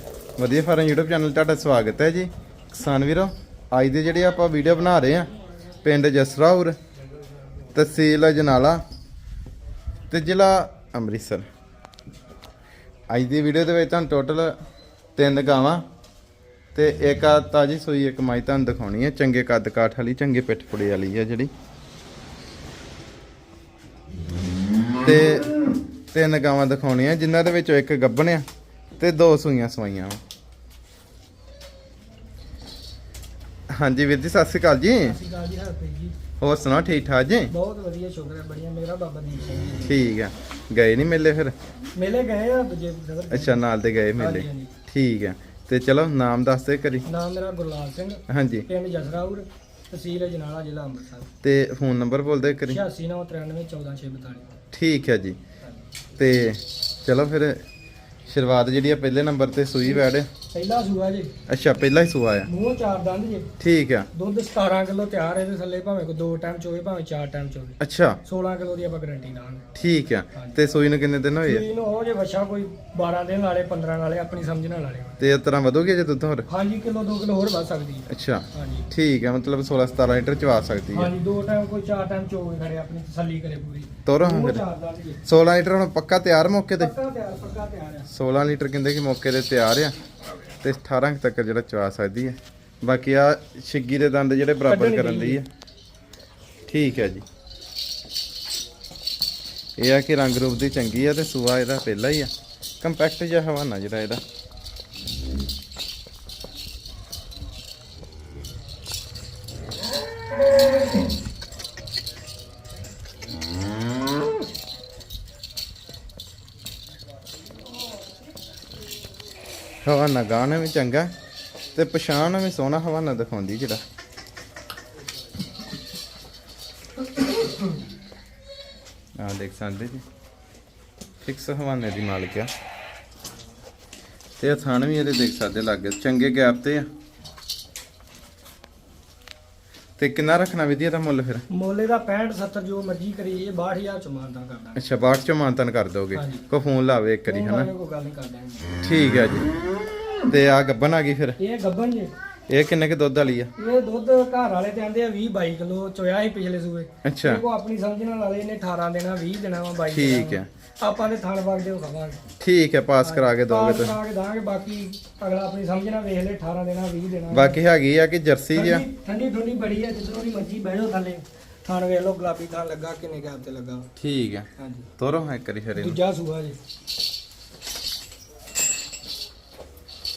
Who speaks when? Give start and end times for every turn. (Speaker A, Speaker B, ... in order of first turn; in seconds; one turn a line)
Speaker A: 0.4-5.3
Speaker A: 5.8-6.8
Speaker A: 7.7-8.8
Speaker A: 10.1-11.5
Speaker A: 13.1-14.5
Speaker A: 15.2-15.8
Speaker A: 16.8-21.5
Speaker A: 25.0-25.6
Speaker A: 26.1-28.4
Speaker A: 29.0-30.2
Speaker A: 33.7-35.2
Speaker B: 35.0-36.1
Speaker A: 36.4-37.5
Speaker B: 37.5-40.0
Speaker A: 39.9-41.5
Speaker B: 42.0-43.6
Speaker A: 43.3-47.0
Speaker B: 44.2-44.7
Speaker B: 47.1-51.3
Speaker A: 48.3-48.7
Speaker A: 51.4-52.8
Speaker B: 52.7-54.5
Speaker A: 54.7-55.4
Speaker B: 55.6-55.9
Speaker A: 56.2-57.6
Speaker A: 58.3-60.3
Speaker B: 59.8-61.3
Speaker A: 61.5-62.5
Speaker B: 62.5-63.5
Speaker A: 63.6-64.1
Speaker B: 64.1-69.7
Speaker A: 67.8-68.2
Speaker A: 69.8-71.7
Speaker B: 70.3-70.6
Speaker B: 71.4-75.2
Speaker A: 75.2-76.5
Speaker B: 76.5-78.9
Speaker A: 78.1-81.1
Speaker B: 80.9-85.2
Speaker A: 84.1-84.6
Speaker A: 85.2-86.9
Speaker B: 86.8-88.1
Speaker A: 88.1-90.0
Speaker A: 90.6-95.5
Speaker B: 94.7-95.4
Speaker A: 96.7-97.2
Speaker A: 99.8-102.3
Speaker A: 102.8-104.2
Speaker A: 119.8-121.1
Speaker A: 121.8-123.8
Speaker A: 129.2-130.0
Speaker A: 131.2-132.5
Speaker A: 134.4-136.9
Speaker A: 140.0-141.4
Speaker B: 141.5-144.8
Speaker A: 144.8-147.7
Speaker B: 146.1-146.5
Speaker B: 147.3-148.8
Speaker A: 148.8-149.6
Speaker A: 150.3-151.4
Speaker B: 151.4-152.1
Speaker A: 152.5-153.5
Speaker B: 153.6-162.2
Speaker A: 157.0-157.4
Speaker A: 159.9-160.5
Speaker A: 162.4-164.0
Speaker B: 163.0-167.6
Speaker A: 167.3-168.9
Speaker B: 168.5-173.9
Speaker A: 174.0-176.0
Speaker B: 174.6-174.9
Speaker B: 175.8-176.6